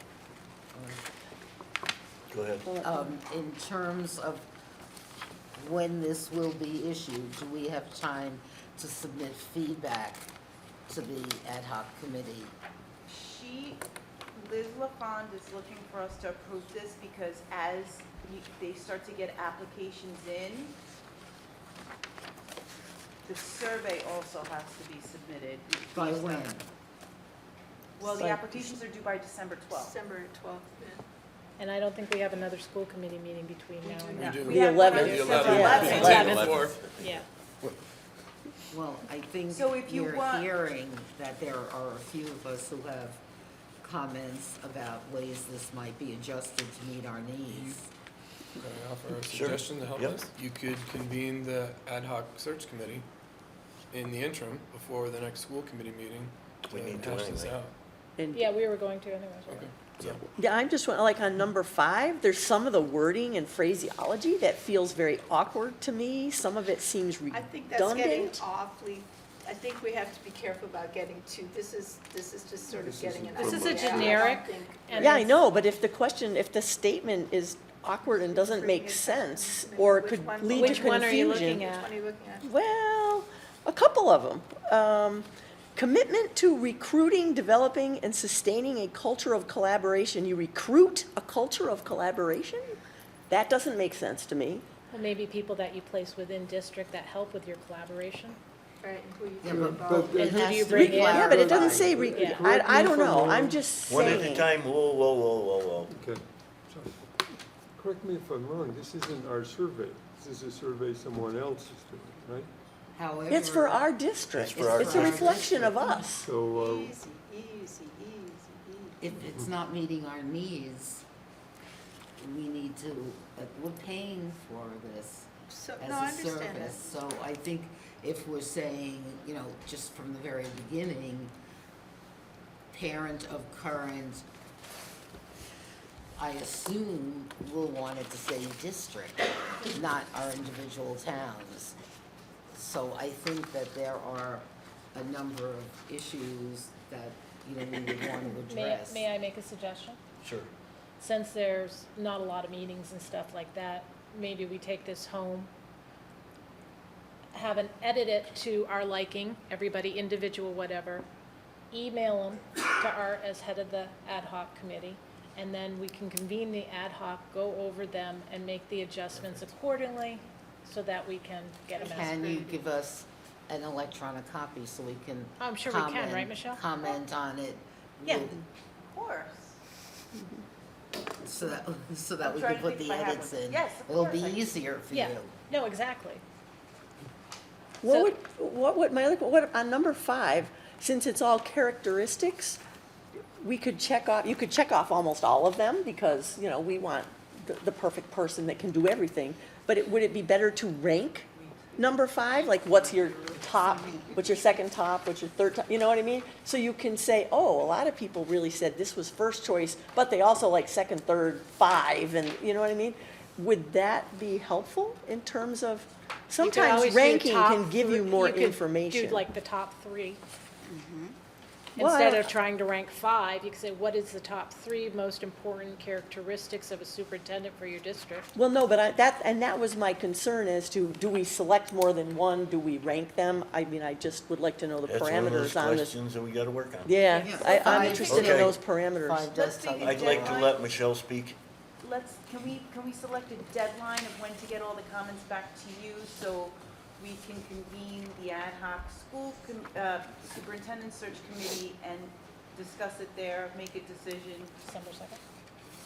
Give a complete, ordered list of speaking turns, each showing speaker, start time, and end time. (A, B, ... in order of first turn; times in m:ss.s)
0:00.8-0:01.0 A
0:02.3-0:02.7 B
0:02.8-0:04.4 A
0:05.6-0:10.3 A
0:10.9-0:12.6 A
0:13.1-0:13.8 C
0:14.4-0:20.7 C
0:23.2-0:26.5 C
0:25.9-0:26.6 A
0:28.0-0:30.0 C
0:28.0-0:28.8 D
0:29.7-0:31.0 E
0:31.6-0:34.8 F
0:33.8-0:34.5 E
0:34.2-0:36.5 C
0:34.2-0:36.8 G
0:34.5-0:36.4 D
0:35.1-0:35.5 E
0:35.5-0:36.3 F
0:36.3-0:37.0 B
0:37.0-0:37.3 F
0:38.7-0:43.2 A
0:39.5-0:40.5 C
0:43.8-0:47.9 A
0:47.5-0:47.8 G
0:48.6-0:53.1 G
0:49.2-0:50.2 B
0:53.9-0:57.7 G
0:56.7-0:57.6 B
0:58.2-0:58.5 D
0:58.3-0:59.7 F
0:59.5-1:00.2 G
1:00.1-1:08.5 D
1:07.3-1:15.2 E
1:12.7-1:14.3 H
1:13.4-1:15.4 F
1:15.0-1:21.7 D
1:18.1-1:22.5 E
1:20.5-1:21.9 F
1:22.4-1:32.8 D
1:33.3-1:34.6 D
1:34.9-1:38.4 F
1:38.8-1:40.2 E
1:39.4-1:42.0 A
1:39.5-1:43.8 H
1:40.1-1:42.5 F
1:40.2-1:44.5 D
1:43.8-1:45.9 B
1:45.9-1:47.0 H
1:47.8-1:52.5 H
1:52.9-1:53.9 A
1:53.3-1:56.3 D
1:54.3-1:55.3 B
1:54.5-1:56.0 A
1:54.9-1:55.2 H
1:56.1-1:57.0 H
1:56.5-1:59.2 E
1:59.0-2:01.0 A
2:02.2-2:11.3 A
2:05.5-2:07.0 E
2:12.7-2:14.2 A
2:16.2-2:21.8 A
2:22.5-2:29.1 A
2:28.4-2:30.0 F
2:30.2-2:30.5 B
2:31.0-2:35.5 F
2:37.3-2:41.1 F
2:41.7-2:52.2 F
2:51.7-2:52.7 E
2:51.8-2:58.4 A
2:55.4-2:56.6 F
2:58.0-2:58.3 F
2:58.8-2:59.6 C
3:01.2-3:05.3 A
3:02.2-3:04.5 C
3:04.9-3:06.2 F
3:07.8-3:12.6 D
3:07.8-3:08.2 F
3:13.4-3:39.2 D
3:21.4-3:24.5 C
3:36.4-3:40.2 F
3:40.6-3:41.1 C
3:41.8-3:48.3 F
3:41.8-3:42.3 D
3:48.4-3:56.0 D
3:54.8-3:58.5 B
3:56.9-3:59.3 D
3:57.1-3:58.3 C
3:57.2-4:00.5 A
3:59.3-4:00.6 C
3:59.8-4:01.4 B
4:01.8-4:14.5 C
4:14.6-4:15.2 F